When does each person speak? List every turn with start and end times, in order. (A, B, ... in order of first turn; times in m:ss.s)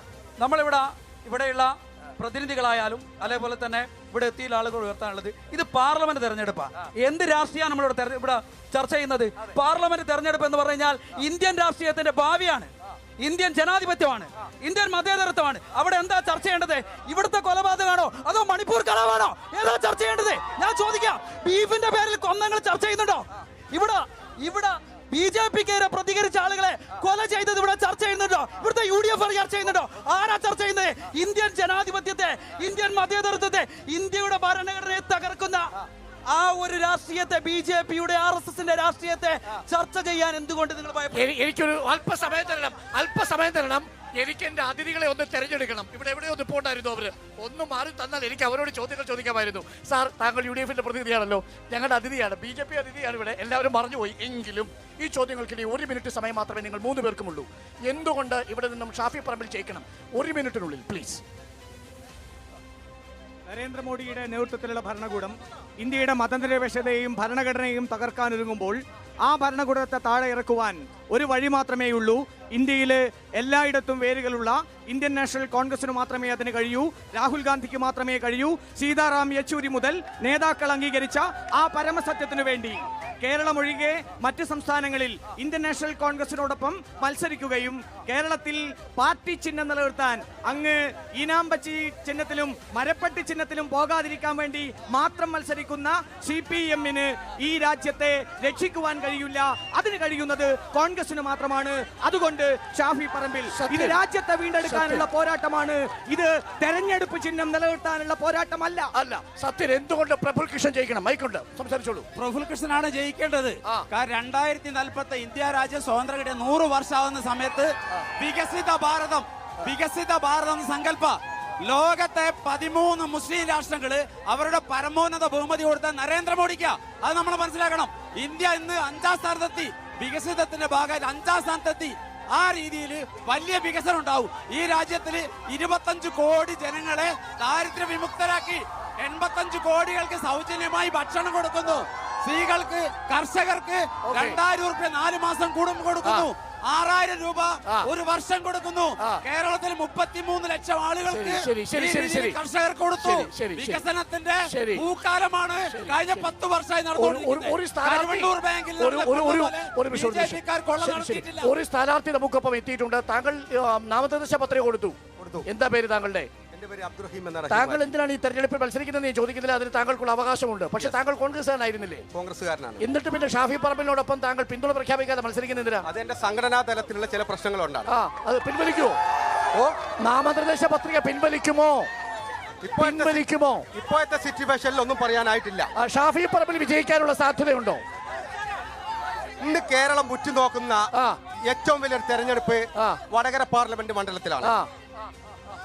0:00.4-0:35.7 A
0:36.3-0:41.3 A
0:41.1-1:01.2 B
1:03.5-1:48.9 C
1:43.5-1:44.0 B
1:44.6-1:45.0 B
1:49.0-1:52.1 B
1:52.2-2:41.5 D
2:24.0-2:24.4 B
2:26.0-2:26.3 B
2:31.1-2:32.4 B
2:33.0-2:33.8 B
2:34.5-2:34.8 B
2:35.6-2:36.3 B
2:36.9-2:46.3 B
2:45.2-2:45.5 E
2:46.5-2:47.8 E
2:47.5-2:52.1 B
2:52.1-2:52.8 E
2:52.8-2:55.9 B
2:55.8-2:57.9 E
2:57.9-2:59.0 B
3:00.0-3:01.9 B
3:02.6-3:05.7 E
3:02.8-3:03.7 B
3:05.8-3:07.8 B
3:09.4-3:10.8 E
3:10.9-3:11.2 B
3:11.4-3:14.6 E
3:14.4-3:14.7 B